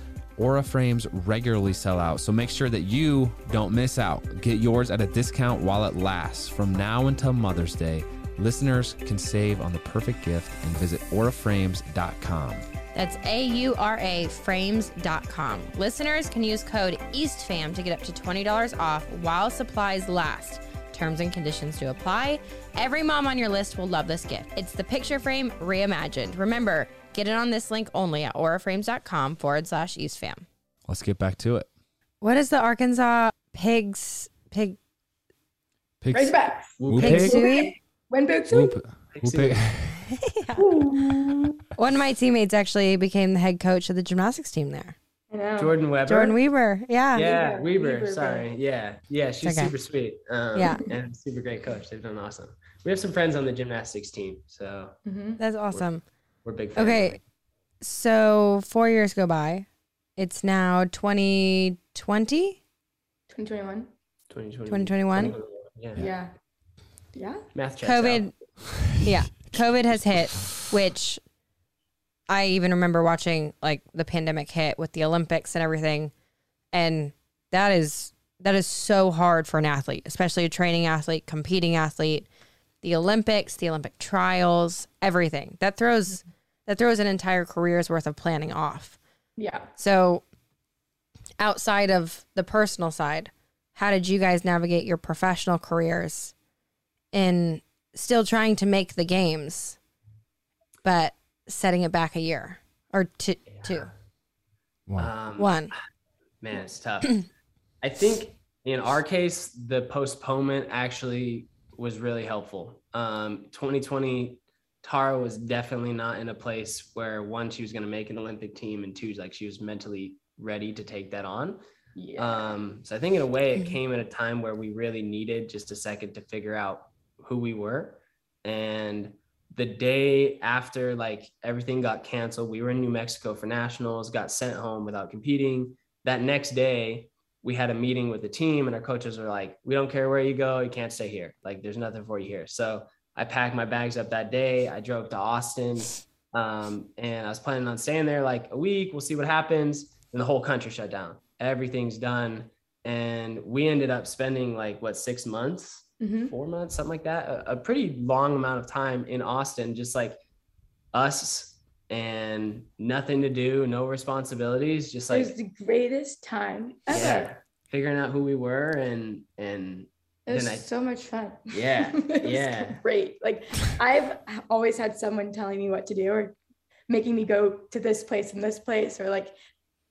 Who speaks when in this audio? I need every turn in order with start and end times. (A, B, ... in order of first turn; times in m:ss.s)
0:00.4-0:12.6 A
0:12.9-0:30.4 B
0:30.9-0:31.7 A
0:32.2-0:34.8 B
0:36.0-0:37.4 A
0:36.1-0:38.8 C
0:36.8-0:37.4 D
0:37.0-0:37.7 B
0:38.5-0:40.1 A
0:39.1-0:39.7 D
0:40.2-0:40.6 B
0:40.5-0:41.6 C
0:41.8-0:44.9 B
0:45.3-0:45.8 C
0:45.6-0:46.4 D
0:46.0-0:47.3 B
0:47.1-0:55.0 D
0:47.2-0:48.5 C
0:49.4-0:49.7 B
0:50.5-0:50.8 B
0:55.0-0:55.4 C
0:55.4-0:56.0 B
0:56.4-0:57.2 D
0:56.8-0:57.2 B
0:57.8-1:02.6 B
1:03.3-1:03.9 C
1:04.3-1:06.1 D
1:04.7-1:05.4 B
1:06.0-1:06.3 C
1:07.1-1:07.4 C
1:07.5-1:08.3 D
1:07.8-1:08.3 B
1:09.0-1:11.2 B
1:12.3-1:16.1 B
1:16.7-1:22.3 B
1:22.8-1:29.0 B
1:29.4-1:29.7 C
1:29.8-1:30.2 B
1:31.4-1:36.3 B
1:37.1-1:39.8 B
1:40.8-1:43.9 B
1:45.0-1:45.7 D
1:45.4-1:45.7 B
1:46.4-1:47.3 D
1:47.8-2:01.6 D
2:02.0-2:02.6 C
2:02.2-2:40.2 D
2:36.0-2:36.3 C
2:40.9-2:45.3 D
2:45.1-2:47.3 C
2:46.9-2:50.6 D
2:50.3-2:56.4 C
2:51.5-2:52.8 D
2:56.9-2:59.3 C